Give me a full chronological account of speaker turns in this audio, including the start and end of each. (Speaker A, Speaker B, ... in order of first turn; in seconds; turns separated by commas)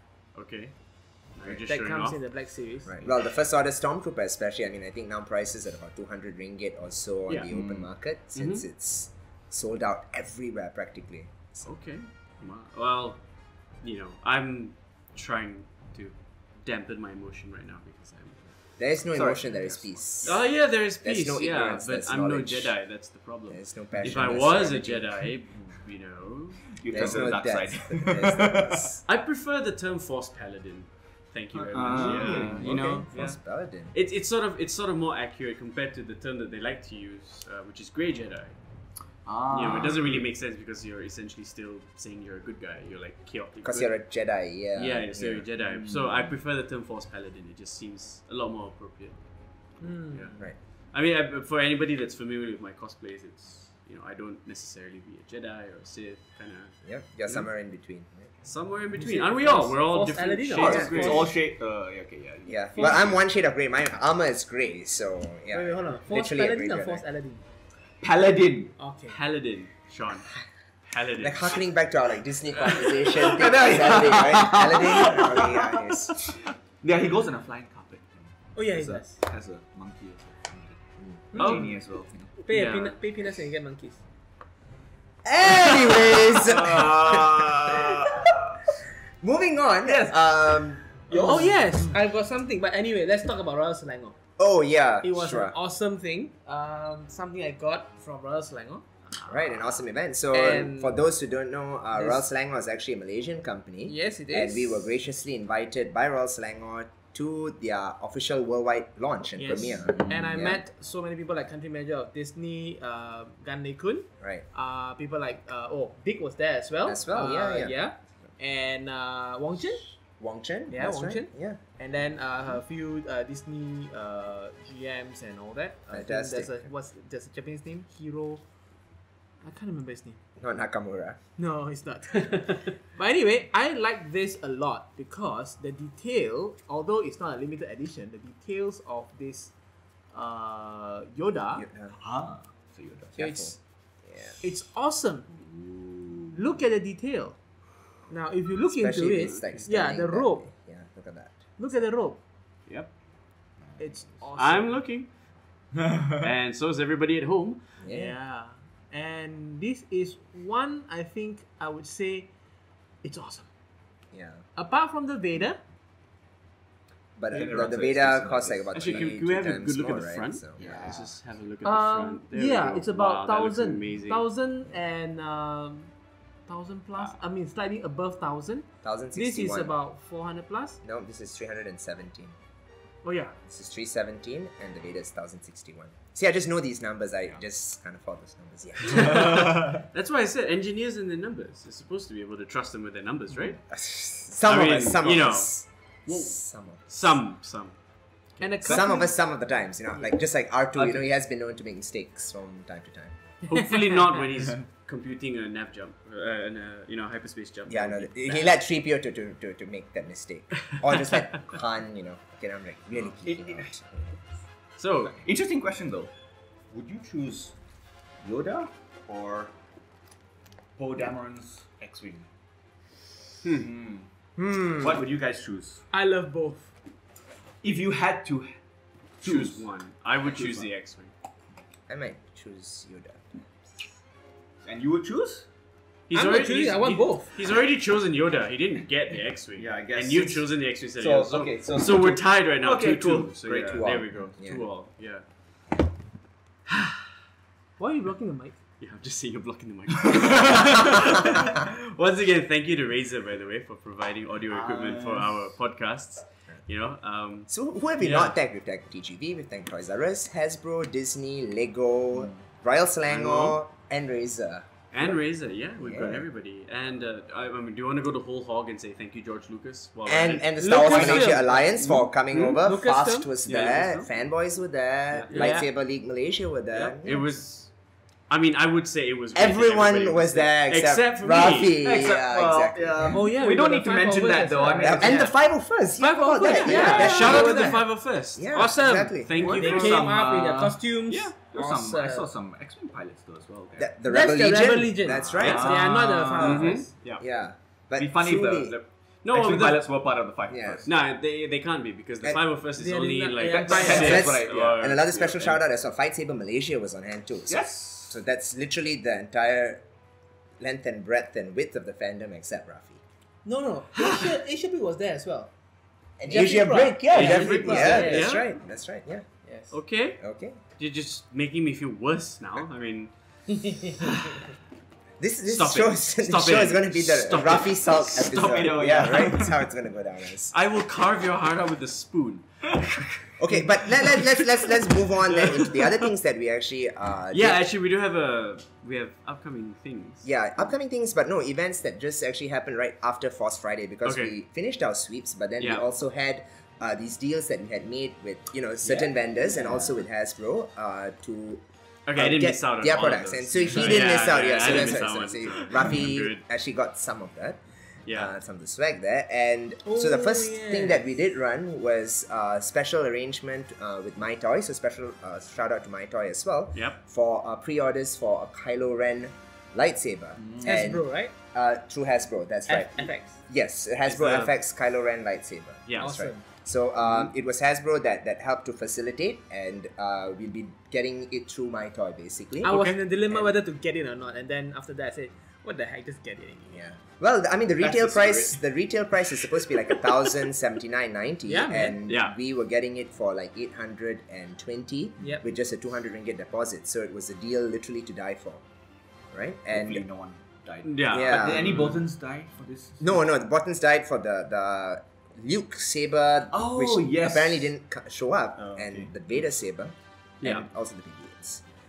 Speaker A: 0.3-2.2, Speaker B: 1.7-2.9, Speaker C: 2.9-11.7, Speaker D: 7.5-7.9, Speaker A: 8.3-8.6, Speaker A: 11.7-18.8, Speaker C: 18.8-22.9, Speaker D: 19.1-20.4, Speaker A: 20.2-27.3, Speaker C: 23.5-25.2, Speaker D: 26.8-29.0, Speaker C: 26.9-29.0, Speaker A: 29.1-33.4, Speaker D: 31.5-33.0, Speaker C: 31.9-33.9, Speaker A: 33.9-38.6, Speaker D: 39.3-40.2, Speaker A: 39.5-44.1, Speaker C: 43.6-45.5, Speaker A: 44.8-49.2, Speaker D: 45.6-46.4, Speaker B: 49.8-50.3, Speaker A: 49.8-57.5, Speaker C: 56.9-58.3, Speaker A: 58.4-61.3, Speaker B: 59.0-61.2, Speaker C: 60.6-61.3, Speaker D: 60.6-63.2, Speaker C: 62.5-67.0, Speaker B: 65.5-67.4, Speaker D: 68.0-68.8, Speaker B: 68.8-69.2, Speaker A: 69.1-70.3, Speaker A: 70.9-71.6, Speaker C: 71.2-76.2, Speaker A: 72.7-73.4, Speaker D: 73.2-82.3, Speaker B: 78.5-79.2, Speaker B: 81.3-81.7, Speaker A: 81.4-81.7, Speaker B: 82.4-84.0, Speaker A: 82.5-83.0, Speaker C: 85.2-88.3, Speaker D: 85.7-88.6, Speaker C: 89.2-91.4, Speaker D: 91.1-92.0, Speaker B: 91.1-94.2, Speaker C: 94.4-95.5, Speaker B: 95.0-99.7, Speaker C: 99.2-110.6, Speaker B: 100.3-101.0, Speaker B: 102.0-102.2, Speaker B: 103.9-104.9, Speaker B: 109.4-119.8, Speaker C: 114.2-114.5, Speaker C: 116.8-117.8, Speaker C: 120.0-121.6, Speaker B: 120.7-128.4, Speaker C: 125.9-126.6, Speaker B: 129.4-130.2, Speaker C: 130.4-131.2, Speaker B: 131.4-139.5, Speaker B: 140.1-141.7, Speaker C: 141.5-142.0, Speaker D: 142.0-143.2, Speaker B: 143.2-143.6, Speaker C: 143.2-144.4, Speaker B: 144.4-145.3, Speaker D: 145.3-146.4, Speaker B: 146.3-147.4, Speaker B: 148.1-150.4, Speaker C: 148.7-151.5, Speaker B: 151.6-152.2, Speaker B: 153.8-154.8, Speaker A: 154.4-155.2, Speaker A: 156.1-157.7, Speaker C: 157.8-158.2, Speaker B: 157.9-162.3, Speaker B: 163.0-163.5, Speaker C: 164.1-164.4, Speaker B: 164.6-165.6, Speaker C: 167.2-170.9, Speaker D: 167.3-169.1, Speaker A: 168.7-174.2, Speaker D: 170.6-171.1, Speaker B: 171.6-175.9, Speaker B: 176.5-180.8, Speaker C: 178.8-179.7, Speaker C: 180.8-182.4, Speaker B: 183.0-183.3, Speaker C: 183.5-189.6, Speaker A: 188.8-193.7, Speaker C: 193.7-196.9, Speaker A: 194.4-197.8, Speaker B: 198.4-199.2, Speaker C: 198.6-203.2, Speaker D: 200.8-201.1, Speaker A: 203.5-208.5, Speaker C: 207.7-214.2, Speaker A: 210.9-211.2, Speaker D: 212.9-213.7, Speaker A: 214.8-215.2, Speaker D: 215.1-216.1, Speaker D: 216.7-217.5, Speaker D: 218.2-219.5, Speaker D: 220.8-222.3, Speaker D: 223.5-224.1, Speaker C: 224.4-225.0, Speaker D: 224.8-225.8, Speaker B: 225.9-226.7, Speaker D: 227.6-228.5, Speaker D: 229.2-229.6, Speaker A: 229.2-231.1, Speaker D: 230.2-230.7, Speaker C: 231.9-233.6, Speaker D: 234.6-235.5, Speaker A: 236.1-245.2, Speaker B: 236.1-237.3, Speaker D: 239.6-240.4, Speaker D: 241.0-244.3, Speaker C: 244.4-244.7, Speaker A: 246.7-247.0, Speaker B: 247.8-248.6, Speaker A: 248.8-258.4, Speaker D: 254.5-255.4, Speaker C: 257.5-265.2, Speaker A: 263.1-263.6, Speaker A: 264.9-272.6, Speaker C: 265.8-266.3, Speaker C: 270.1-277.3, Speaker B: 270.6-273.3, Speaker A: 273.5-274.1, Speaker A: 275.1-275.5, Speaker B: 275.3-275.7, Speaker A: 276.7-281.8, Speaker C: 279.3-283.3, Speaker D: 281.8-285.4, Speaker B: 283.1-285.3, Speaker C: 284.8-289.3, Speaker B: 286.0-287.9, Speaker A: 286.6-291.4, Speaker D: 286.7-287.4, Speaker B: 288.5-292.2, Speaker D: 289.4-290.8, Speaker D: 291.5-293.9, Speaker C: 293.8-295.7, Speaker B: 294.1-296.9, Speaker D: 295.1-296.8, Speaker A: 295.4-297.2, Speaker C: 296.4-298.8, Speaker D: 298.0-300.9, Speaker A: 298.8-299.9, Speaker C: 300.5-300.8, Speaker A: 300.9-305.1, Speaker B: 302.8-304.3, Speaker D: 303.4-305.6, Speaker C: 303.9-309.8, Speaker D: 307.5-308.2, Speaker C: 310.6-313.0, Speaker B: 313.5-315.5, Speaker C: 316.2-319.3, Speaker B: 316.2-318.4, Speaker A: 317.1-318.5, Speaker B: 319.4-319.7, Speaker A: 319.7-323.8, Speaker C: 320.2-320.6, Speaker B: 323.6-324.2, Speaker C: 325.2-330.5, Speaker A: 325.5-329.5, Speaker D: 328.2-329.6, Speaker A: 330.5-333.2, Speaker C: 333.4-337.6, Speaker A: 334.0-334.4, Speaker A: 335.3-336.1, Speaker A: 337.3-340.3, Speaker C: 340.2-351.6, Speaker A: 344.0-344.4, Speaker A: 345.6-345.9, Speaker D: 348.8-350.0, Speaker A: 352.1-356.4, Speaker C: 352.1-382.8, Speaker D: 353.6-355.0, Speaker A: 358.1-358.3, Speaker B: 359.9-361.1, Speaker D: 370.4-370.9, Speaker B: 370.6-371.3, Speaker B: 372.7-373.4, Speaker A: 374.1-374.5, Speaker A: 375.9-376.2, Speaker B: 376.0-376.4, Speaker B: 382.6-386.8, Speaker A: 382.6-383.0, Speaker C: 383.3-383.6, Speaker C: 386.7-398.6, Speaker D: 387.8-388.5, Speaker B: 391.5-392.0, Speaker A: 392.0-392.4, Speaker C: 399.3-400.0, Speaker D: 399.7-403.2, Speaker A: 400.8-401.9, Speaker C: 401.1-402.0, Speaker C: 403.0-411.6, Speaker D: 406.5-407.7, Speaker D: 408.6-409.1, Speaker A: 410.4-410.7